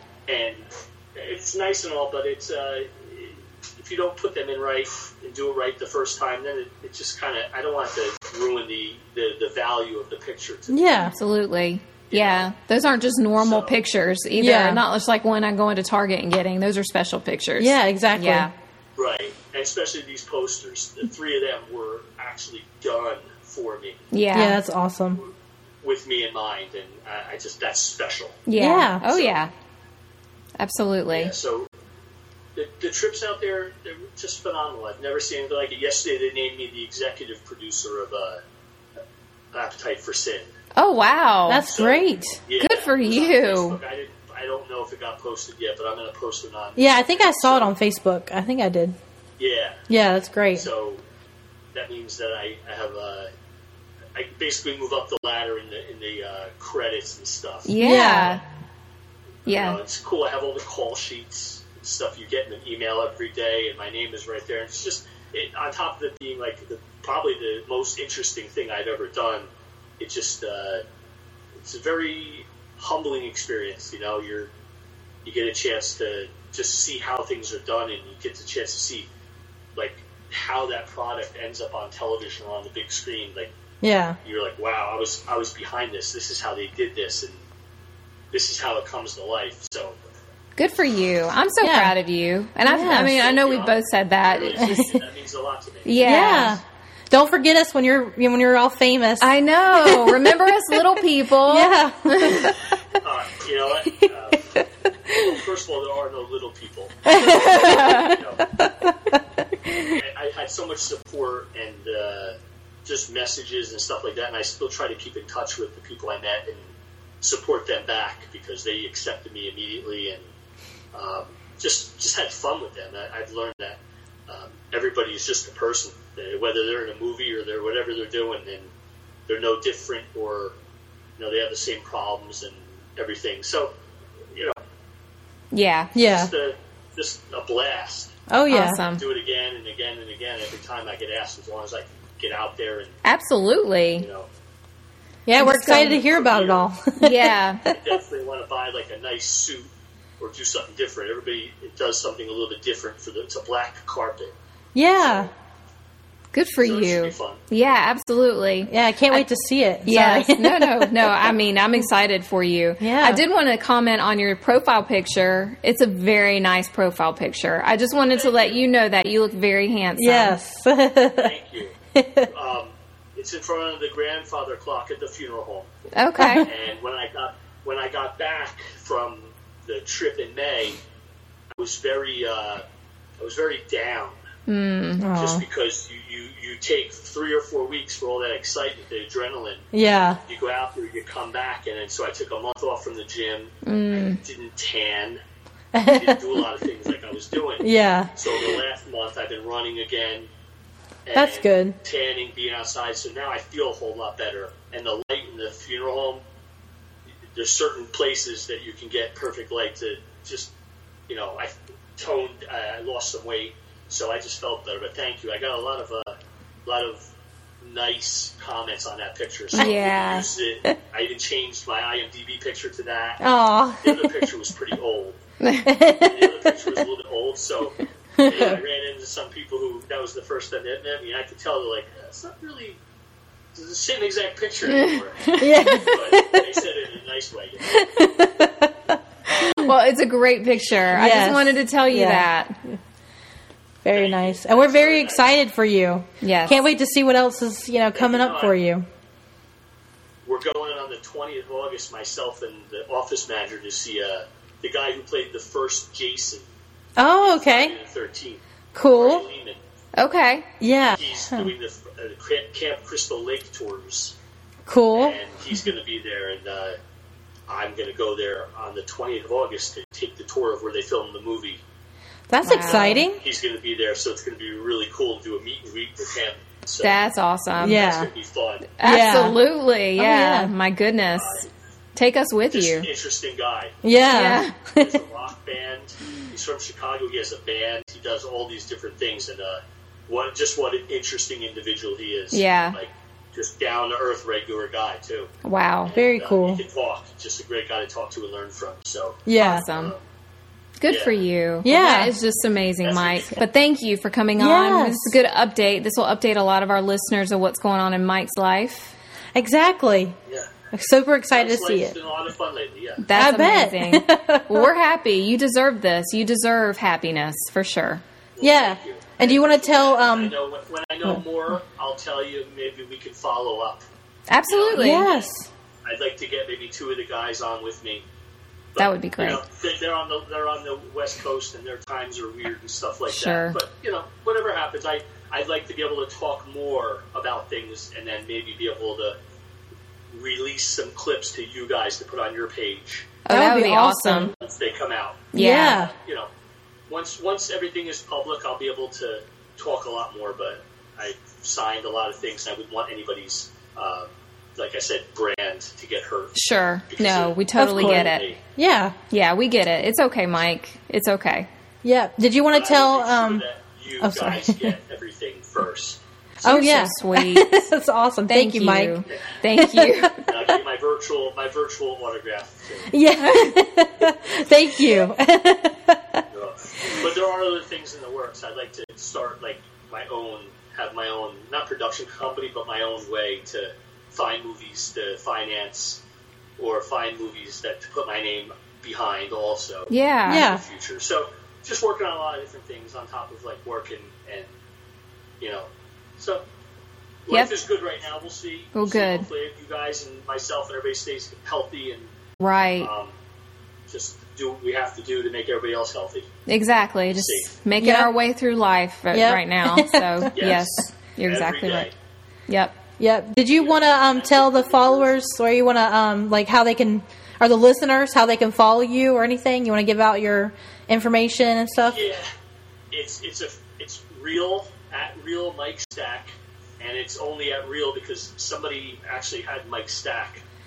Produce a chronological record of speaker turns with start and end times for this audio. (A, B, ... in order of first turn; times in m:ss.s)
0:00.3-0:11.1 A
0:10.7-0:11.1 B
0:11.1-0:18.5 C
0:12.1-0:12.5 A
0:13.4-0:13.8 A
0:14.4-0:14.8 B
0:17.6-0:18.5 B
0:19.0-0:24.1 A
0:24.1-0:24.6 C
0:24.3-0:25.2 B
0:25.1-0:28.4 A
0:28.5-0:29.5 C
0:28.6-0:29.0 B
0:29.1-0:29.4 A
0:30.6-0:31.3 C
0:31.1-0:31.7 A
0:32.6-0:38.4 A
0:39.5-0:40.5 A
0:40.8-0:41.6 C
0:41.5-0:42.4 B
0:41.6-0:47.7 A
0:42.6-0:43.8 C
0:46.8-0:48.9 B
0:49.4-0:49.8 A
0:49.9-0:50.7 B
0:50.6-0:51.0 A
0:51.7-0:53.3 A
0:54.1-0:57.7 A
0:57.6-0:58.4 C
0:57.8-0:58.4 B
0:59.4-1:09.5 A
0:59.5-0:59.8 C
1:10.0-1:10.8 A
1:11.6-1:14.5 A
1:15.2-1:19.1 A
1:19.8-1:23.5 A
1:23.8-1:24.2 B
1:24.2-1:27.4 A
1:28.3-1:30.0 A
1:30.6-1:34.9 C
1:31.6-1:31.9 B
1:32.6-1:33.2 B
1:32.9-1:36.4 A
1:34.6-1:34.9 B
1:35.8-1:36.6 C
1:36.0-1:40.8 B
1:39.2-1:42.6 C
1:41.4-1:42.6 B
1:43.0-1:44.6 A
1:45.1-1:45.4 B
1:45.2-1:48.5 A
1:47.1-1:49.7 B
1:47.2-1:48.1 C
1:50.0-2:00.2 A
2:00.9-2:08.7 A
2:09.3-2:10.6 A
2:11.2-2:13.7 A
2:14.3-2:14.6 A
2:15.5-2:15.9 C
2:15.9-2:16.3 B
2:16.0-2:18.1 A
2:18.3-2:18.8 B
2:18.5-2:19.0 C
2:18.9-2:23.0 A
2:23.0-2:24.1 C
2:24.0-2:24.3 A
2:25.3-2:27.8 B
2:25.4-2:26.0 C
2:25.9-2:26.7 A
2:27.0-2:27.7 C
2:27.6-2:34.4 A
2:34.7-2:35.3 B
2:35.0-2:35.3 A
2:36.3-2:39.3 C
2:36.6-2:37.4 A
2:38.6-2:41.4 B
2:39.9-2:50.4 C
2:42.8-2:43.2 B
2:48.1-2:48.6 A
2:50.0-2:51.4 B
2:51.1-2:51.7 A
2:51.9-2:52.3 B
2:52.3-2:55.7 A
2:55.9-2:56.5 C
2:56.2-2:56.5 B
2:56.3-3:00.8 A
3:01.6-3:02.6 A
3:03.2-3:04.2 A
3:04.5-3:05.1 C
3:05.0-3:05.4 B
3:05.1-3:09.6 A
3:09.7-3:10.2 B
3:10.2-3:15.2 A
3:13.6-3:14.2 C
3:15.7-3:16.4 B
3:15.8-3:20.3 A
3:17.6-3:18.6 B
3:21.1-3:26.2 A
3:21.1-3:21.8 B
3:27.3-3:30.5 A
3:31.1-3:36.1 A
3:36.6-3:37.0 A
3:37.6-3:43.3 A
3:39.5-3:40.3 C
3:43.2-3:44.3 B
3:43.8-3:45.2 A
3:45.4-3:45.7 C
3:45.6-3:46.8 B
3:46.0-3:52.8 A
3:48.2-3:48.6 B
3:53.6-3:57.8 A
3:54.7-3:55.4 C
3:55.3-3:56.6 B
3:57.7-3:59.0 B
3:59.3-4:02.6 C
4:00.6-4:00.9 A
4:00.9-4:02.7 B
4:03.8-4:08.9 B
4:03.9-4:05.3 A
4:06.2-4:06.6 C
4:07.9-4:08.6 A
4:10.2-4:16.5 A
4:17.0-4:17.8 B
4:17.3-4:19.6 A
4:18.7-4:19.2 B
4:20.0-4:20.5 C
4:20.6-4:21.5 B
4:20.9-4:24.1 A
4:24.6-4:25.2 B
4:24.9-4:26.8 A
4:27.5-4:31.6 A
4:32.3-4:33.2 B
4:32.4-4:33.1 C
4:32.6-4:36.9 A
4:36.8-4:37.8 C
4:37.6-4:38.1 B
4:37.6-4:38.7 A
4:38.8-4:41.4 C
4:38.8-4:39.4 B
4:40.0-4:40.5 B
4:41.1-4:41.4 A
4:42.0-4:42.9 C
4:42.5-4:43.8 A
4:43.8-4:45.0 B
4:44.1-4:44.6 C
4:44.7-4:55.3 A
4:52.3-4:52.8 C
4:55.4-4:55.9 C
4:55.8-5:00.0 A
4:55.9-4:56.6 B
4:59.3-4:59.7 B
4:59.4-4:59.9 C
5:00.8-5:08.9 C
5:00.9-5:01.1 A
5:01.6-5:02.1 B
5:02.8-5:03.4 A
5:04.4-5:05.2 B
5:09.3-5:10.2 B
5:10.3-5:10.5 A
5:10.7-5:11.9 B
5:11.3-5:13.1 A
5:13.0-5:18.0 C
5:13.1-5:14.7 B
5:18.4-5:23.8 A
5:18.4-5:20.4 B
5:24.3-5:25.1 C
5:24.4-5:25.3 A
5:24.7-5:25.5 B
5:25.8-5:28.0 A
5:28.8-5:39.2 A
5:28.8-5:29.4 C
5:33.1-5:33.6 C
5:40.1-5:43.1 A
5:43.3-5:44.3 C
5:43.3-5:44.3 B
5:44.4-5:46.3 A
5:45.3-5:45.8 C
5:45.3-5:45.9 B
5:46.9-5:56.4 A
5:56.4-5:58.2 C
5:56.9-5:58.4 A
5:57.6-5:59.0 B
5:59.1-6:01.5 C
6:01.8-6:03.4 B
6:02.5-6:06.0 A
6:04.0-6:04.7 B
6:06.4-6:07.7 C
6:06.4-6:10.2 B
6:08.3-6:10.2 C
6:09.1-6:09.4 A
6:10.2-6:12.9 A
6:12.9-6:16.2 B
6:13.1-6:13.6 C
6:16.3-6:26.0 A
6:26.6-6:34.5 A
6:29.9-6:30.5 C
6:30.3-6:30.6 B
6:35.4-6:36.4 A
6:37.3-6:42.1 A
6:38.7-6:39.3 C
6:42.4-6:42.9 C
6:42.8-6:43.1 A
6:43.9-6:46.3 A
6:46.5-6:51.9 C
6:47.1-6:47.5 A
6:47.8-6:48.1 B
6:49.1-6:50.6 B
6:50.3-6:51.9 A
6:52.5-6:52.8 C
6:53.0-7:02.0 B
6:53.6-6:55.1 A
7:01.8-7:02.3 A
7:02.9-7:10.4 A